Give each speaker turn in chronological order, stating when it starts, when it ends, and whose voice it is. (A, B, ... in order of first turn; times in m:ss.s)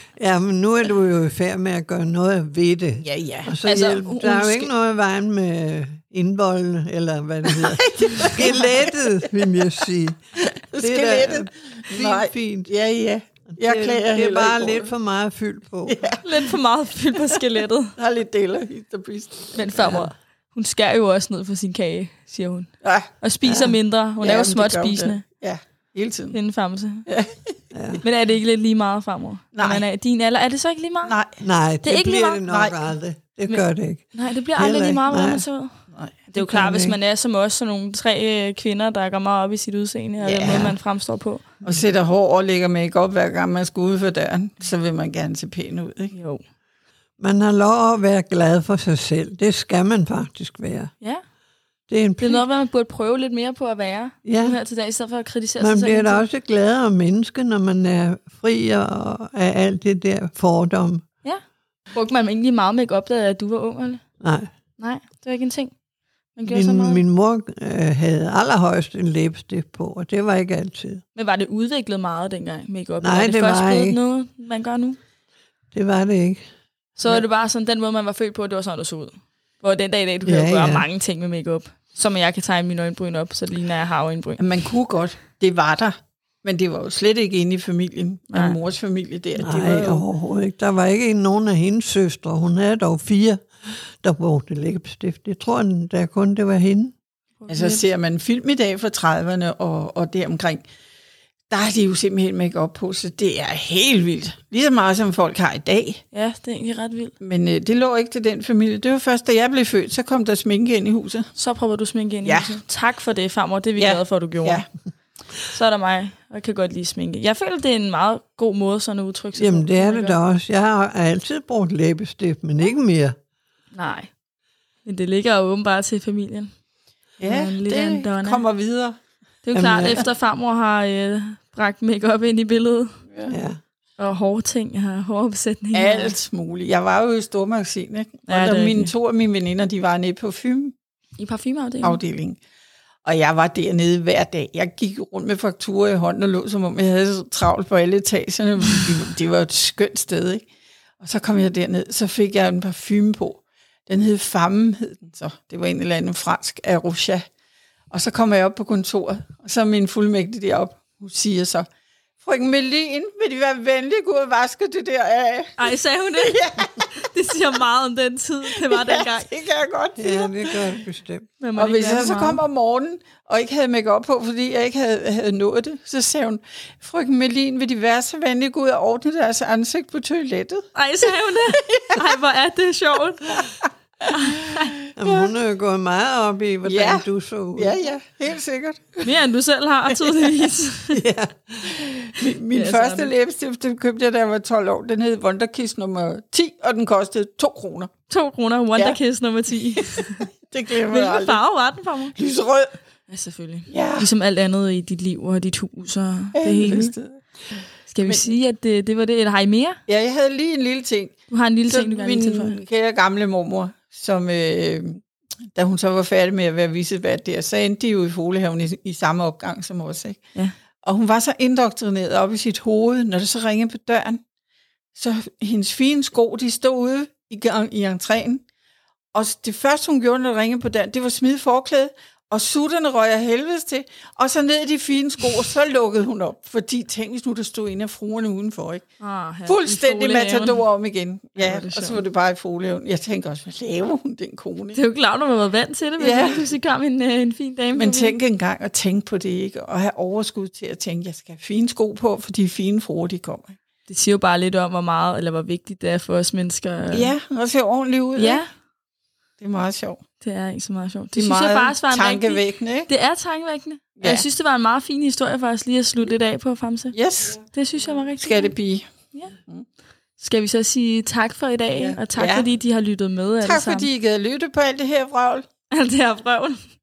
0:00.2-0:10.2 A
0:03.0-0:03.5 B
0:03.6-0:04.7 C
0:07.5-0:09.3 B
0:10.5-0:14.9 B
0:10.8-0:12.7 A
0:13.5-0:16.0 A
0:15.9-0:16.2 B
0:16.2-0:18.0 C
0:18.0-0:19.6 B
0:19.5-0:25.2 C
0:19.8-0:20.1 A
0:22.8-0:23.1 B
0:23.4-0:23.8 A
0:24.2-0:26.4 B
0:26.3-0:27.1 C
0:27.1-0:27.5 B
0:27.7-0:28.0 A
0:28.0-0:31.2 C
0:29.6-0:29.9 B
0:31.0-0:31.4 B
0:31.4-0:35.4 A
0:31.8-0:32.4 C
0:32.4-0:32.8 B
0:33.5-0:35.7 C
0:36.3-0:41.5 C
0:36.4-0:37.0 A
0:40.2-0:40.8 B
0:41.6-0:46.1 B
0:46.1-0:46.4 C
0:47.2-0:50.9 A
0:51.9-0:52.4 A
0:52.2-0:56.2 C
0:54.2-0:54.6 A
0:55.6-1:01.0 A
1:01.9-1:04.0 C
1:04.2-1:04.5 A
1:04.8-1:05.7 C
1:06.4-1:07.0 C
1:06.5-1:11.0 A
1:11.2-1:15.0 C
1:13.0-1:14.0 A
1:15.7-1:16.4 A
1:17.0-1:24.4 C
1:20.2-1:20.9 A
1:24.4-1:30.0 B
1:28.3-1:28.6 C
1:29.4-1:37.0 A
1:37.4-1:37.8 C
1:37.5-1:40.6 B
1:41.5-1:46.0 B
1:46.1-1:47.1 C
1:47.2-1:51.3 B
1:51.4-1:54.6 C
1:52.2-1:52.6 B
1:53.8-1:54.6 B
1:55.5-2:00.2 C
1:59.4-2:03.2 A
2:03.7-2:04.1 C
2:04.8-2:06.5 C
2:07.2-2:08.4 C
2:07.2-2:09.0 B
2:09.4-2:13.0 C
2:09.5-2:10.0 A
2:13.3-2:13.6 A
2:14.0-2:16.2 C
2:15.7-2:20.7 B
2:18.3-2:18.9 C
2:21.2-2:22.0 C
2:21.8-2:22.4 B
2:23.0-2:30.4 B
2:31.0-2:37.3 B
2:37.9-2:41.7 B
2:42.2-2:46.8 B
2:45.6-2:49.3 C
2:48.5-2:50.7 B
2:50.0-2:51.3 A
2:51.4-2:52.4 C
2:51.6-3:00.7 B
3:00.8-3:03.5 C
3:01.5-3:02.0 B
3:04.1-3:04.8 C
3:05.0-3:07.8 A
3:05.0-3:05.3 B
3:06.6-3:09.1 B
3:09.0-3:11.0 C
3:10.0-3:10.5 B
3:11.0-3:11.7 A
3:11.6-3:17.9 B
3:12.5-3:13.1 C
3:18.1-3:20.3 C
3:19.8-3:21.4 B
3:20.9-3:22.2 C
3:22.2-3:22.7 B
3:23.1-3:26.9 C
3:23.7-3:24.1 B
3:26.4-3:27.2 B
3:27.9-3:29.8 C
3:28.0-3:28.3 B
3:29.9-3:31.2 B
3:31.3-3:32.6 C
3:31.7-3:35.0 B
3:35.6-3:40.2 B
3:40.8-3:44.2 B
3:45.0-3:48.4 B
3:49.1-3:58.8 B
3:59.0-4:00.6 C
3:59.5-4:04.8 B
4:01.4-4:02.0 C
4:04.7-4:08.2 C
4:06.0-4:06.5 B
4:07.8-4:13.6 B
4:13.9-4:17.1 C
4:16.9-4:18.4 B
4:18.2-4:18.5 C
4:19.4-4:20.0 B
4:20.2-4:27.0 C
4:21.2-4:22.9 B
4:24.0-4:24.2 B
4:26.9-4:27.4 B
4:27.5-4:28.5 C
4:28.2-4:28.9 B
4:30.2-4:33.9 C
4:31.8-4:32.5 B
4:33.4-4:35.4 B
4:35.7-4:36.6 C